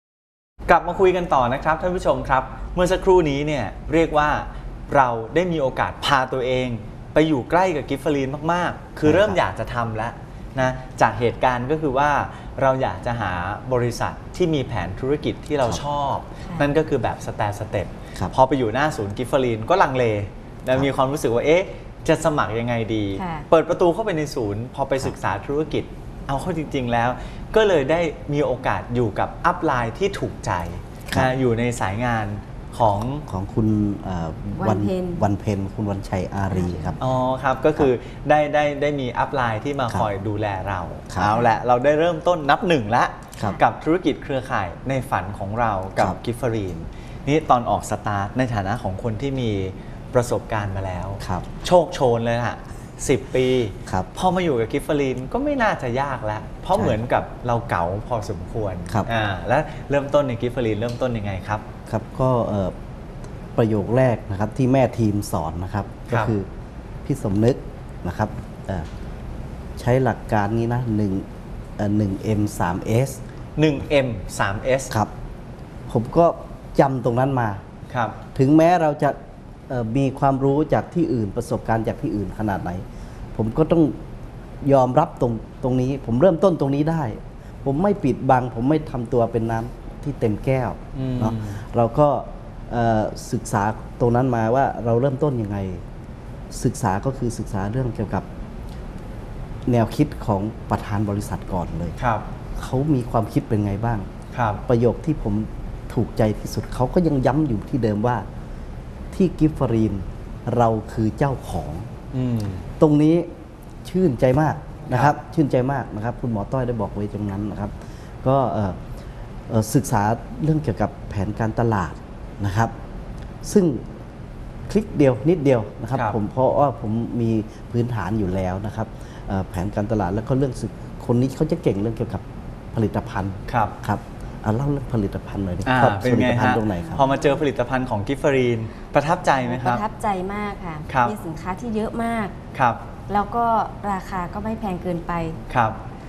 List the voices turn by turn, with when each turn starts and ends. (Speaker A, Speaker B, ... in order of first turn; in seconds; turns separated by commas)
Speaker A: 0.7-33.2, Speaker B: 9.0-9.4, Speaker C: 16.4-16.7, Speaker C: 23.1-23.5, Speaker B: 33.3-37.0, Speaker C: 34.6-35.2, Speaker C: 36.5-37.0, Speaker A: 37.0-61.6, Speaker B: 41.1-41.4, Speaker B: 51.2-51.5, Speaker B: 56.7-57.0, Speaker B: 61.9-62.7, Speaker B: 63.5-66.5, Speaker A: 66.1-66.3, Speaker B: 67.0-68.9, Speaker B: 69.8-71.2, Speaker B: 71.8-73.2, Speaker A: 73.6-74.9, Speaker B: 75.9-77.6, Speaker A: 77.9-78.2, Speaker B: 78.3-79.2, Speaker B: 79.7-82.8, Speaker B: 83.3-84.0, Speaker B: 84.6-95.8, Speaker A: 90.9-91.6, Speaker B: 96.5-98.2, Speaker B: 99.7-102.0, Speaker A: 102.0-102.2, Speaker B: 102.6-104.1, Speaker A: 104.3-104.6, Speaker B: 104.7-108.2, Speaker B: 109.1-111.9, Speaker A: 112.1-112.7, Speaker B: 112.8-113.3, Speaker B: 113.8-118.8, Speaker B: 119.5-122.7, Speaker B: 123.4-123.8, Speaker B: 124.7-137.1, Speaker A: 133.5-133.8, Speaker A: 135.7-139.8, Speaker C: 136.9-137.3, Speaker C: 139.4-142.3, Speaker A: 140.9-141.1, Speaker A: 142.5-142.8, Speaker C: 143.1-145.4, Speaker A: 145.5-145.8